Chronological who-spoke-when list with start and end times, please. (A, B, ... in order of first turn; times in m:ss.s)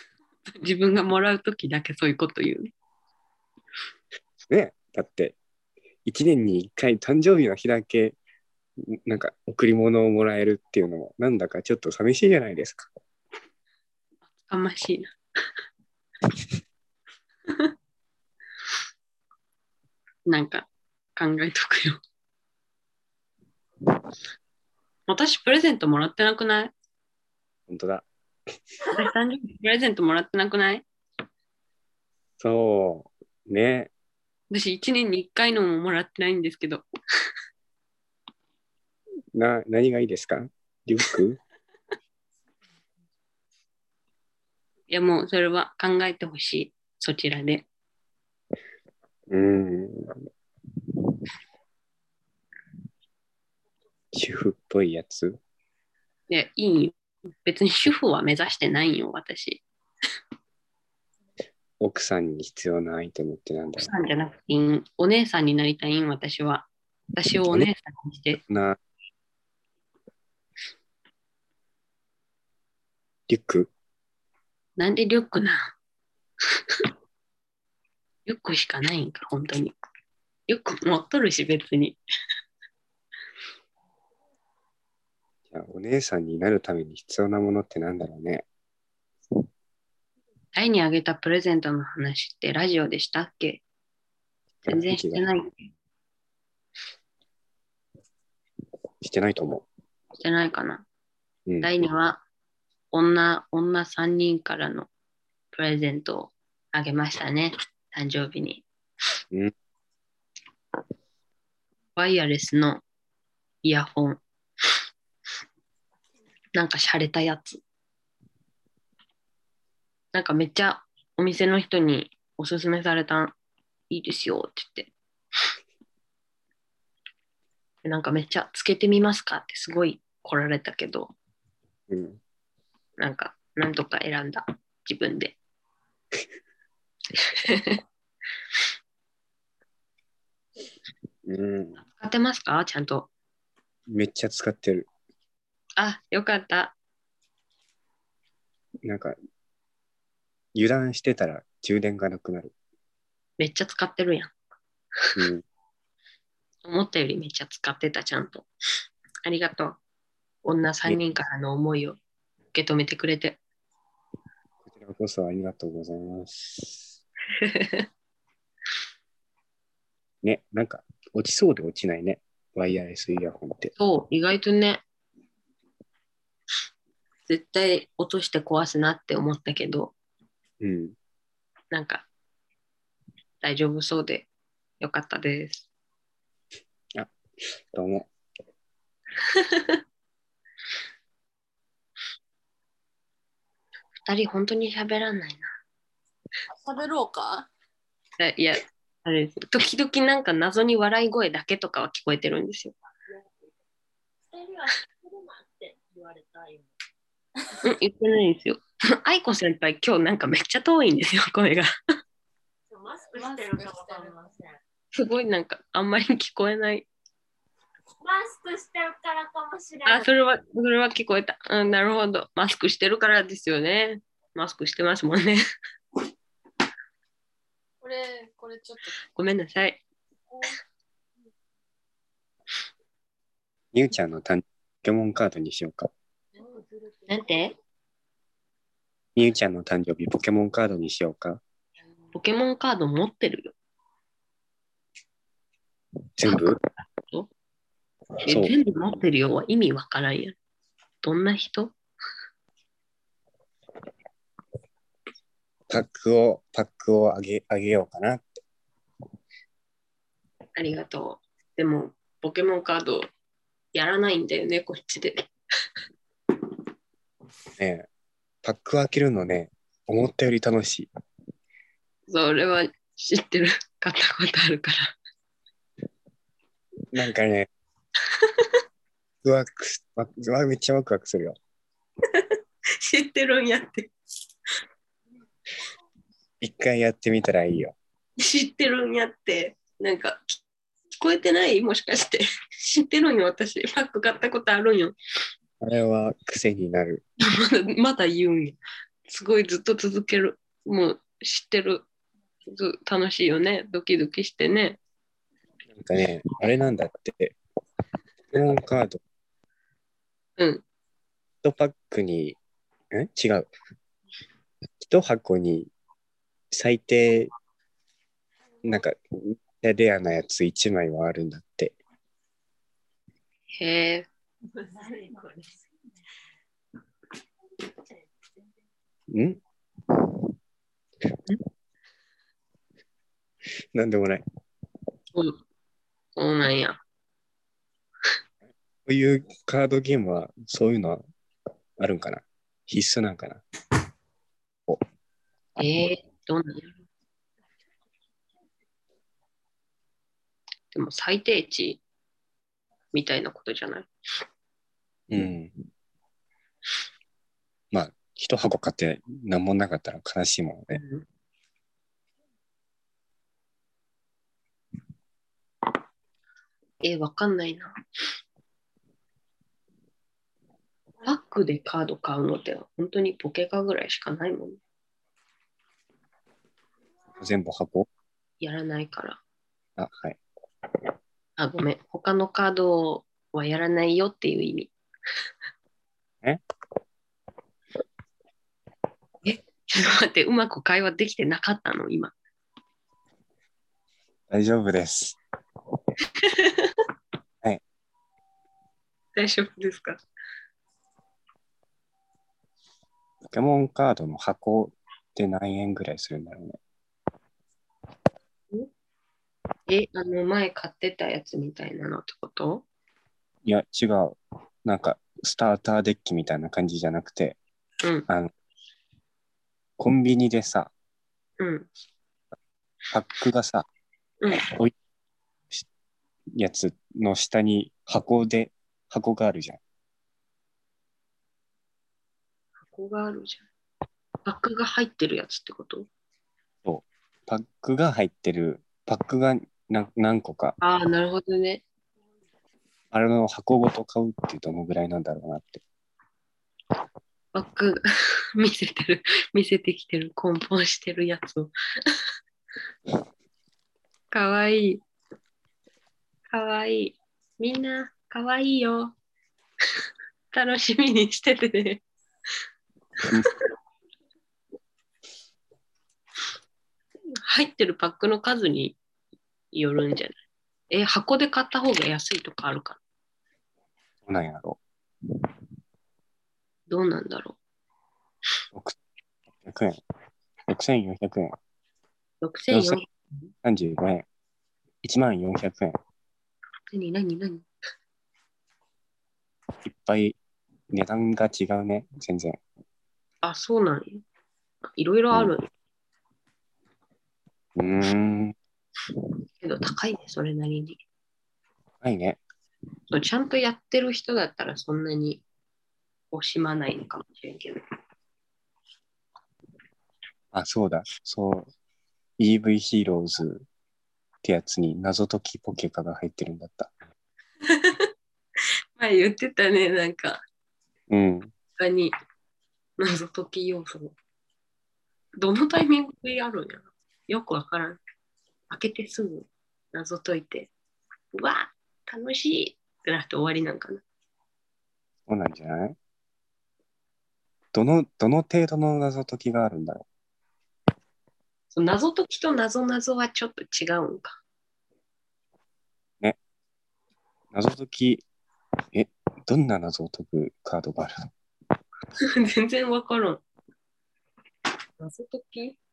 0:00.5-0:02.7 A
0:04.5-0:05.4 B
0:06.0-0:08.2 B
0:08.8-0:12.9 B
0:14.4-0:15.1 A
0:20.2-0:22.0 A
0:25.1-0:26.7 A
0:27.7-0:28.0 B
0:28.9-0:30.8 A
0:32.4-0:33.9 B
0:34.5-0:36.8 A
0:39.3-0:41.4 B
0:44.9-0:47.6 A
0:49.3-0:50.2 B
0:54.1-0:55.4 B
0:56.3-0:59.6 A
1:01.8-1:03.9 B
1:03.8-1:08.4 A
1:08.4-1:08.8 B
1:13.3-1:13.7 B
1:14.8-1:15.7 A
1:18.2-1:19.7 A
1:20.5-1:22.0 A
1:25.5-1:28.4 B
1:30.5-1:33.6 A
1:34.6-1:35.3 B
1:34.7-1:35.5 A
1:39.0-1:39.6 B
1:40.2-1:40.8 A
1:41.6-1:42.2 A
1:42.9-1:44.9 A
1:45.5-1:48.6 A
1:52.0-1:52.8 A
1:53.6-1:54.2 A
1:56.5-1:57.6 A
2:00.1-2:03.3 A
2:03.9-2:04.9 A
2:07.8-2:11.1 A
2:11.9-2:12.2 B
2:13.0-2:15.4 A
2:17.2-2:17.8 A
2:21.2-2:21.8 B
2:22.0-2:23.1 A
2:23.9-2:24.9 B
2:25.8-2:26.7 A
2:28.8-2:29.2 B
2:30.5-2:32.5 B
2:33.4-2:34.3 A
2:35.2-2:35.4 B
2:36.6-2:38.4 A
2:39.2-2:39.8 A
2:40.4-2:42.0 A
2:42.5-2:43.4 A
2:44.6-2:46.8 B
2:47.4-2:47.8 A
2:50.2-2:53.7 B
2:53.8-2:54.8 A
2:57.3-2:59.9 A
3:00.6-3:01.0 B
3:01.7-3:02.0 A
3:03.4-3:04.3 A
3:04.8-3:05.7 A
3:07.7-3:08.1 B
3:09.3-3:09.8 A
3:14.0-3:15.5 A
3:16.6-3:17.5 C
3:18.2-3:22.7 A
3:24.3-3:26.7 D
3:27.6-3:31.7 A
3:32.7-3:34.6 D
3:33.1-3:34.1 C
3:34.9-3:36.9 A
3:38.0-3:40.1 D
3:39.8-3:45.4 A
3:47.8-3:48.9 C
3:49.1-3:49.8 A
3:53.7-3:55.9 B
3:57.1-3:57.5 A
3:59.2-4:01.4 B
4:02.1-4:03.5 A
4:06.2-4:06.6 B
4:06.2-4:07.3 A
4:08.2-4:10.3 A
4:08.3-4:08.5 B
4:11.0-4:11.7 A
4:15.7-4:18.4 B
4:20.6-4:23.1 A
4:23.7-4:25.3 A
4:27.6-4:27.9 B
4:28.4-4:30.9 B
4:32.1-4:34.9 A
4:36.9-4:37.5 B
4:38.2-4:38.5 A
4:39.2-4:41.4 B
4:42.1-4:43.9 A
4:46.4-4:47.7 B
4:48.2-4:50.4 A
4:51.0-4:54.9 A
4:55.6-4:57.0 B
4:57.2-5:01.8 A
5:02.4-5:04.8 A
5:05.7-5:07.4 B
5:08.3-5:09.0 B
5:10.4-5:10.6 A
5:11.4-5:12.4 B
5:12.9-5:13.5 B
5:14.8-5:15.7 B
5:16.5-5:17.3 B
5:18.6-5:21.8 B
5:23.5-5:24.0 A
5:24.5-5:25.7 D
5:29.1-5:29.4 B
5:33.7-5:34.2 B
5:36.2-5:36.8 A
5:38.8-5:41.0 B
5:41.8-5:43.4 B
5:45.6-5:46.7 A
5:50.7-5:51.8 A
5:52.9-5:53.9 A
5:55.1-5:55.6 B
5:57.7-6:00.8 B
6:00.7-6:01.0 A
6:06.8-6:07.7 A
6:11.0-6:14.6 A
6:17.2-6:17.9 B
6:18.4-6:19.2 A
6:19.8-6:20.2 B
6:21.4-6:24.7 A
6:29.2-6:32.1 A
6:34.3-6:35.2 B
6:36.2-6:36.8 A
6:39.1-6:40.0 A
6:43.3-6:46.6 B
6:49.7-6:52.6 A
6:53.4-6:57.4 B
6:59.8-7:00.7 B
7:01.4-7:01.7 A
7:02.9-7:03.6 B
7:04.4-7:04.7 B
7:06.3-7:09.6 B
7:12.7-7:13.4 A
7:14.2-7:15.9 A
7:16.6-7:20.6 B
7:20.6-7:21.6 A
7:22.9-7:25.6 B
7:27.3-7:27.8 A
7:28.3-7:32.0 A
7:34.1-7:34.8 A
7:36.3-7:38.9 A
7:40.3-7:41.8 A
7:43.0-7:43.3 A
7:47.3-7:48.8 A
7:49.5-7:50.1 A
7:50.7-7:52.8 A
7:54.0-7:54.6 B
7:56.7-7:57.4 A
7:58.5-7:58.8 B
7:59.4-7:59.8 B
8:00.5-8:01.4 B
8:02.2-8:02.9 A
8:02.5-8:02.8 B
8:03.4-8:04.0 B
8:04.8-8:05.8 B
8:06.7-8:07.4 A
8:09.6-8:10.2 B
8:10.7-8:12.4 B
8:13.2-8:14.0 A
8:14.6-8:15.4 A
8:17.6-8:18.3 B
8:19.4-8:20.8 A
8:21.8-8:22.2 B
8:22.9-8:25.2 A
8:26.1-8:27.6 A
8:30.3-8:31.5 B
8:32.2-8:33.4 B
8:34.2-8:36.7 B
8:37.4-8:37.9 A
8:38.8-8:40.2 A
8:40.9-8:41.3 B
8:41.6-8:41.9 A
8:42.8-8:43.9 A
8:45.2-8:47.8 A
8:48.5-8:50.5 A
8:51.1-8:53.8 A
8:55.1-8:55.8 B
8:57.5-8:59.8 B
9:01.5-9:04.2 A
9:07.3-9:08.0 B
9:08.7-9:11.1 B
9:12.0-9:13.2 A
9:14.8-9:15.6 A